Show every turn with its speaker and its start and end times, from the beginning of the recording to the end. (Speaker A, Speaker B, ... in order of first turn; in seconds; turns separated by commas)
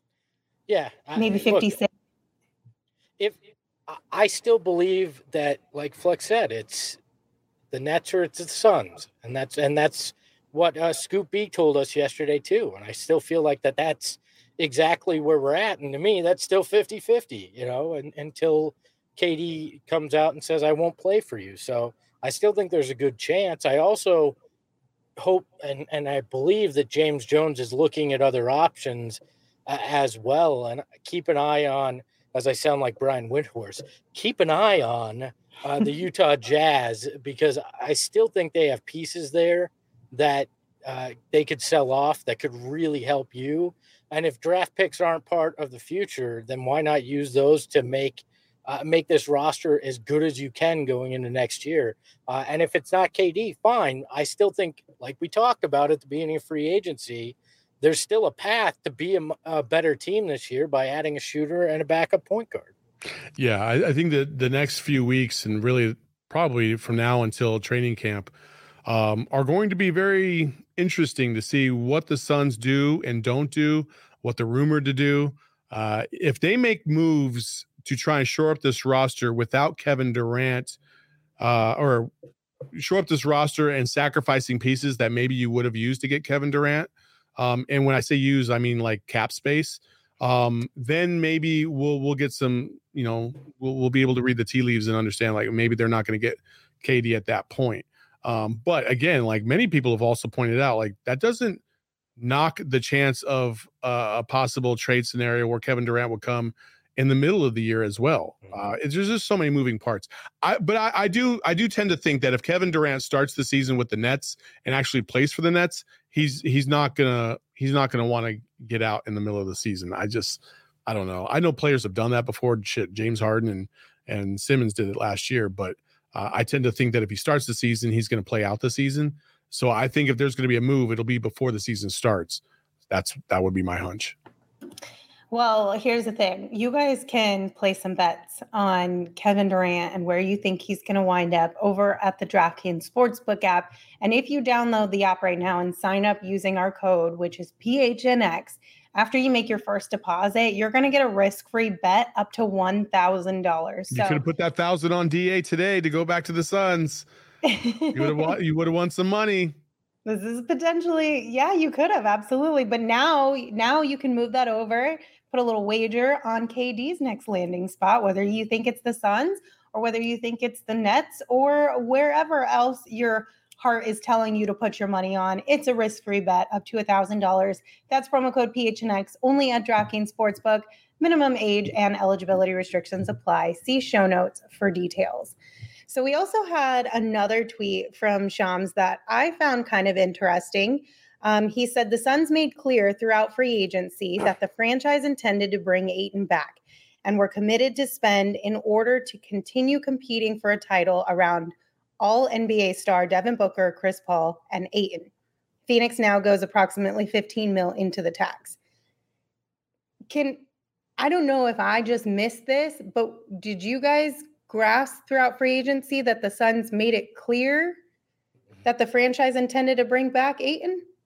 Speaker A: 0.7-1.7, Speaker B: 1.2-1.9, Speaker A: 3.2-7.0, Speaker A: 7.7-24.4, Speaker A: 25.2-62.7, Speaker C: 63.4-68.3, Speaker C: 68.9-80.8, Speaker C: 81.4-82.1, Speaker C: 82.7-101.6, Speaker C: 102.2-134.2, Speaker B: 135.3-154.2, Speaker C: 153.9-157.1, Speaker B: 157.4-158.3, Speaker C: 157.9-159.6, Speaker B: 160.1-185.3, Speaker B: 185.9-205.1, Speaker B: 205.7-208.6, Speaker B: 210.1-210.4, Speaker B: 211.0-217.8, Speaker B: 218.6-220.8